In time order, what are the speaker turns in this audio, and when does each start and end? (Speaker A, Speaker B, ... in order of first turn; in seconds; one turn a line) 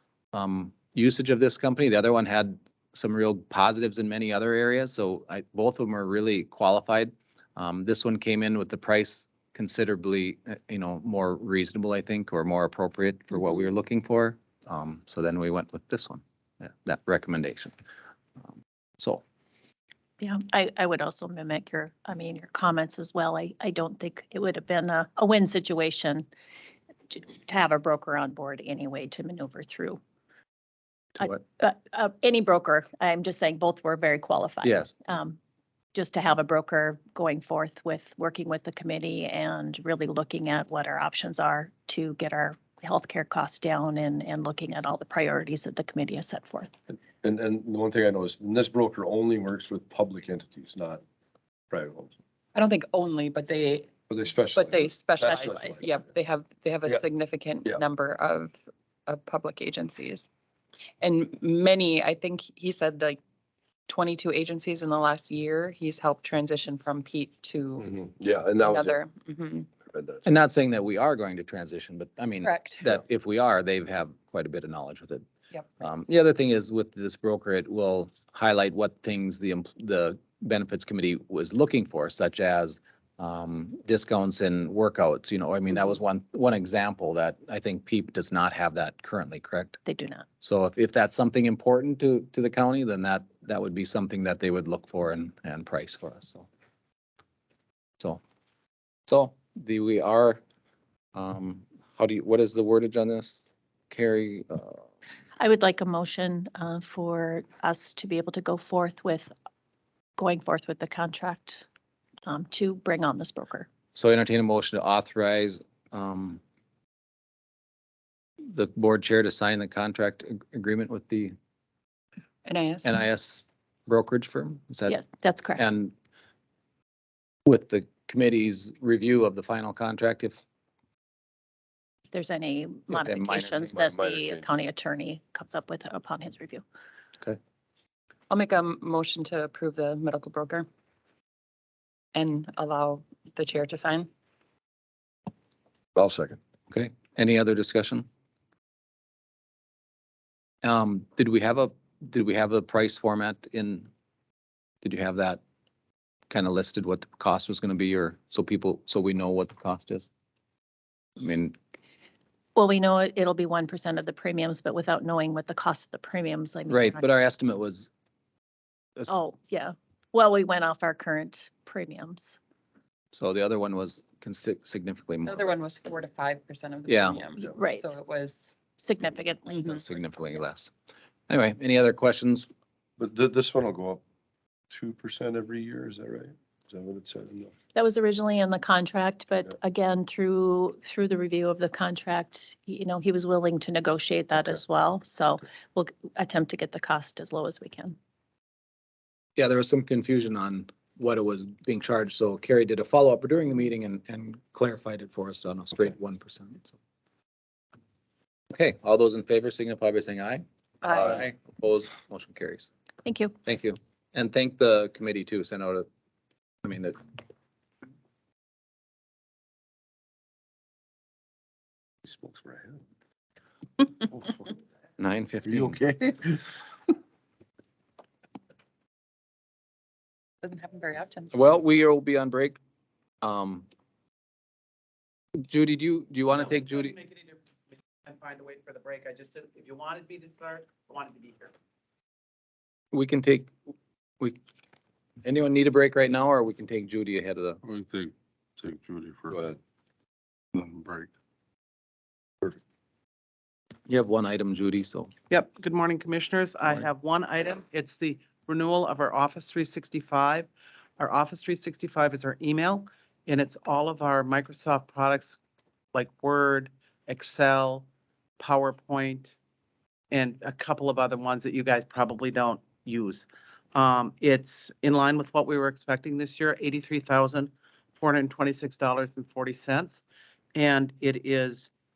Speaker A: 0.3-17.7
Speaker B: 20.2-26.3
Speaker B: 27.1-30.0
Speaker B: 31.2-35.4
Speaker A: 34.6-34.9
Speaker B: 35.9-46.7
Speaker C: 47.0-51.0
Speaker C: 51.7-52.1
Speaker D: 52.5-53.9
Speaker C: 54.1-56.0
Speaker D: 54.5-58.5
Speaker D: 59.1-60.3
Speaker D: 61.0-63.2
Speaker D: 63.9-67.9
Speaker C: 67.8-69.0
Speaker D: 68.6-69.7
Speaker C: 69.9-70.2
Speaker A: 70.2-75.2
Speaker D: 72.4-72.8
Speaker A: 75.8-89.8
Speaker B: 89.8-90.2
Speaker A: 90.4-96.5
Speaker A: 99.1-100.4
Speaker A: 101.1-104.8
Speaker B: 105.4-109.3
Speaker B: 110.2-111.6
Speaker B: 112.2-113.7
Speaker A: 113.9-116.4
Speaker A: 118.5-121.3
Speaker D: 122.4-122.9
Speaker A: 122.8-125.0
Speaker B: 124.9-125.6
Speaker A: 125.5-125.9
Speaker A: 127.5-130.4
Speaker B: 132.1-136.6
Speaker A: 132.9-134.0
Speaker C: 133.9-134.4
Speaker D: 138.3-140.7
Speaker D: 142.1-144.1
Speaker C: 145.9-146.4
Speaker A: 146.7-148.1
Speaker A: 150.6-153.9
Speaker A: 154.8-155.4
Speaker A: 156.3-160.1
Speaker A: 161.2-161.5
Speaker B: 162.5-167.1
Speaker A: 166.7-167.9
Speaker B: 169.1-172.4
Speaker A: 173.1-175.5
Speaker D: 175.2-178.6
Speaker A: 176.9-177.2
Speaker B: 177.5-177.9
Speaker B: 178.8-179.8
Speaker A: 179.7-180.7
Speaker A: 181.3-182.5
Speaker C: 183.0-184.0
Speaker C: 184.7-187.5
Speaker B: 187.7-198.0
Speaker A: 199.4-206.7
Speaker A: 208.5-212.7
Speaker D: 210.8-211.2
Speaker B: 213.0-213.3
Speaker A: 213.4-215.9
Speaker A: 216.6-217.0
Speaker C: 222.0-222.8
Speaker A: 225.0-225.8
Speaker C: 225.5-226.4
Speaker D: 230.4-231.3
Speaker A: 231.3-232.6
Speaker A: 233.2-233.6
Speaker A: 235.5-236.9
Speaker E: 236.3-237.4
Speaker E: 238.0-241.5
Speaker A: 242.9-243.5
Speaker A: 245.2-247.6
Speaker F: 247.8-249.3
Speaker C: 249.3-249.6
Speaker F: 250.6-251.1
Speaker A: 253.9-255.1
Speaker E: 255.3-265.4
Speaker E: 265.9-267.9
Speaker E: 268.4-269.3
Speaker E: 270.1-280.0
Speaker E: 280.5-281.7